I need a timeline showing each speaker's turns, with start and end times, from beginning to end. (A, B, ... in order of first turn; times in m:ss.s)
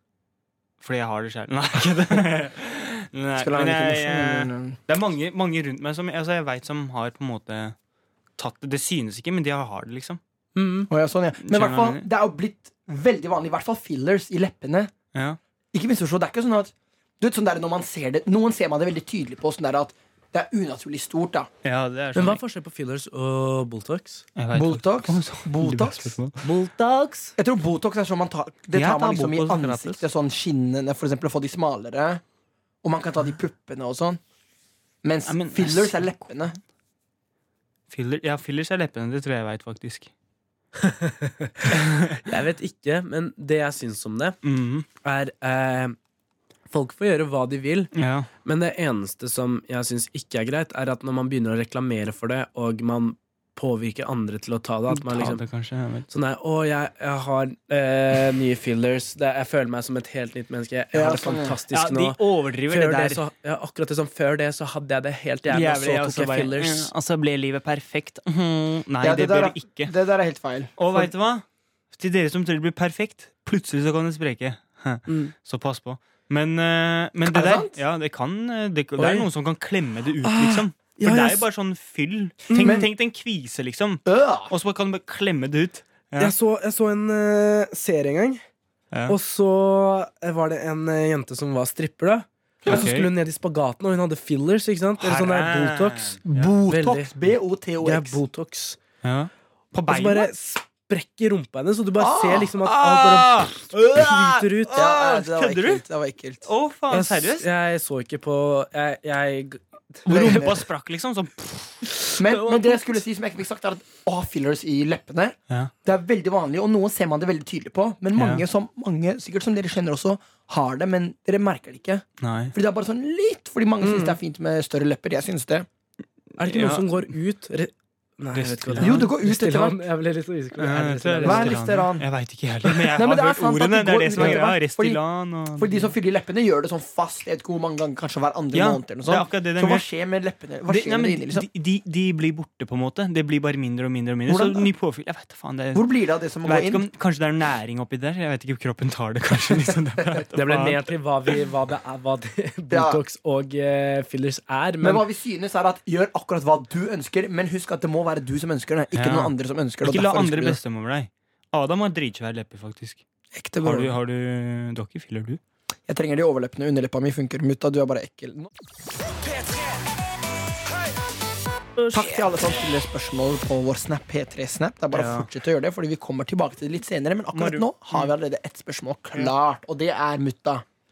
0:00.8-0:07.8 A
0:03.4-0:04.8 B
0:08.4-0:10.2 A
0:10.6-0:10.9 C
0:10.9-0:14.9 B
0:11.4-0:12.0 A
0:15.7-0:21.5 B
0:21.6-0:22.4 A
0:22.2-0:24.2 C
0:24.4-0:26.5 A
0:24.5-0:26.2 B
0:26.4-0:27.3 C
0:27.4-0:32.2 B
0:28.7-0:30.0 A
0:32.8-0:34.2 B
0:35.0-0:36.6 B
0:35.3-0:36.1 A
0:37.9-0:40.1 A
0:40.8-0:44.4 C
0:41.7-0:42.2 A
0:44.4-0:44.9 A
0:45.0-0:46.0 C
0:46.7-0:47.9 C
0:47.9-0:48.3 A
0:48.4-0:55.4 C
0:54.9-0:56.1 A
0:56.1-1:06.9 C
1:00.9-1:01.6 B
1:01.7-1:03.2 A
1:05.5-1:09.9 A
1:09.0-1:11.1 B
1:10.8-1:26.3 A
1:15.1-1:15.3 C
1:17.2-1:17.8 B
1:19.0-1:19.3 B
1:20.9-1:21.4 C
1:22.5-1:22.9 C
1:22.6-1:22.9 B
1:24.1-1:24.5 B
1:26.2-1:28.4 C
1:29.1-1:37.1 C
1:32.6-1:33.1 A
1:35.0-1:36.5 A
1:36.2-1:38.2 B
1:37.8-1:38.8 C
1:39.0-1:40.3 A
1:39.9-1:44.7 C
1:42.0-1:42.5 B
1:42.6-1:45.8 A
1:44.7-1:46.4 B
1:46.4-1:47.4 A
1:46.9-1:50.6 C
1:50.1-1:51.8 A
1:50.1-1:50.6 B
1:52.1-1:52.8 C
1:52.2-2:05.7 B
1:58.1-1:58.4 A
2:02.2-2:02.6 A
2:03.8-2:04.2 C
2:06.4-2:11.6 C
2:06.4-2:07.1 A
2:08.3-2:09.1 A
2:08.8-2:09.8 B
2:10.6-2:15.9 A
2:11.2-2:12.1 B
2:12.6-2:15.0 B
2:14.2-2:14.4 C
2:15.6-2:21.5 B
2:18.5-2:19.8 A
2:20.7-2:25.9 A
2:24.3-2:24.7 B
2:25.7-2:26.8 B
2:26.4-2:30.9 A
2:30.4-2:35.0 C
2:32.7-2:33.0 B
2:34.8-2:40.6 B
2:38.9-2:43.0 A
2:43.3-2:44.0 B
2:43.6-2:45.4 A
2:45.9-2:48.5 B
2:51.9-3:00.6 B
2:54.9-2:55.3 A
2:57.3-2:58.1 A